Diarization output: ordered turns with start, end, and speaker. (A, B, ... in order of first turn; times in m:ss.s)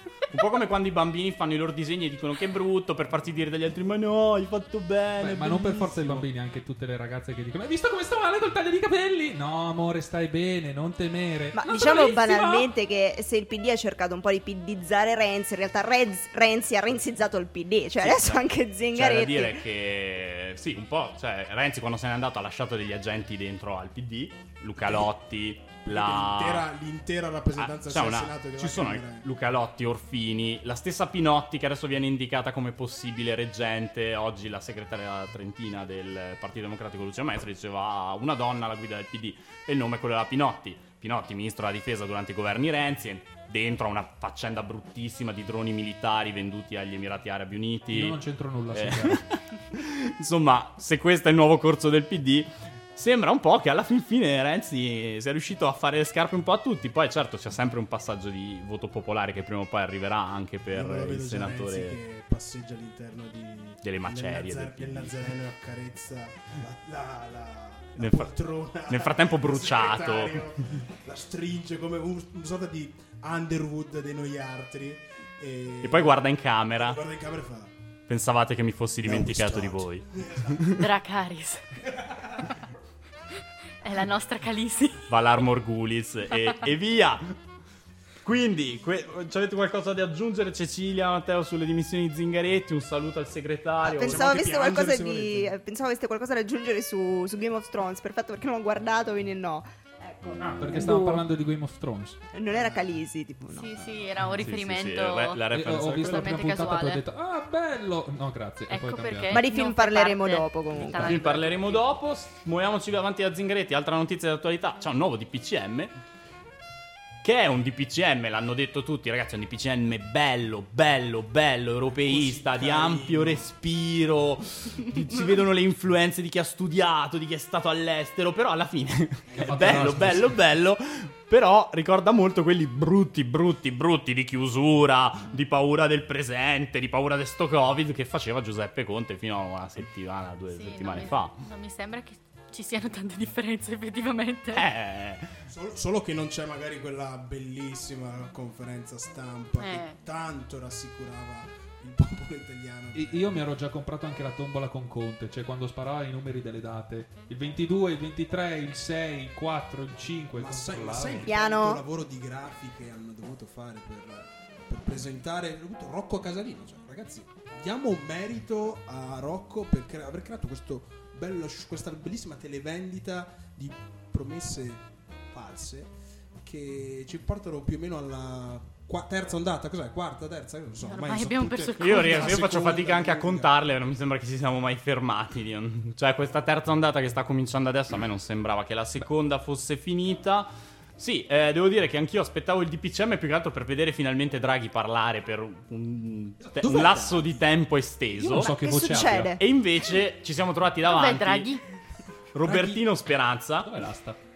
0:00.3-0:06.2 A
0:05.2-0:12.0 B
0:05.5-0:06.2 C
0:11.5-0:19.6 D
0:11.7-0:12.6 E
0:18.0-0:26.7 A
0:24.8-0:25.1 C
0:25.8-0:29.3 C
0:27.6-0:48.2 A
0:47.9-0:49.3 B
0:48.7-1:02.0 A
1:00.7-1:16.2 C
1:03.8-1:05.3 A
1:08.0-1:08.3 A
1:08.8-1:10.4 A
1:15.8-1:17.0 A
1:16.7-1:17.7 C
1:18.1-1:20.8 A
1:19.0-1:20.7 C
1:20.7-1:21.8 E
1:23.8-1:25.1 E
1:25.1-1:27.4 A
1:28.2-1:34.3 A
1:33.8-1:41.3 D
1:34.0-1:35.5 C
1:40.4-1:42.2 B
1:42.3-1:43.7 D
1:42.5-1:42.9 C
1:43.5-1:45.4 E
1:44.4-1:46.4 A
1:45.5-1:49.4 B
1:46.0-1:47.0 E
1:48.7-1:51.8 E
1:49.3-1:51.2 D
1:51.0-1:55.9 A
1:57.2-2:21.4 A
2:02.0-2:03.5 C
2:09.3-2:10.2 C
2:09.3-2:10.4 B
2:20.5-2:24.7 E
2:24.5-2:25.3 A
2:25.4-2:33.5 C
2:29.6-2:30.0 E
2:32.9-2:41.3 B
2:40.4-2:55.9 C
2:41.3-2:41.8 D
2:56.4-3:03.5 C
3:00.8-3:02.5 E
3:01.8-3:18.5 A
3:16.4-3:17.5 C
3:18.2-3:19.4 B
3:18.3-3:19.4 D
3:19.4-3:21.5 A
3:20.8-3:21.6 E
3:22.3-3:23.8 A
3:22.4-3:22.8 B
3:23.6-3:24.2 B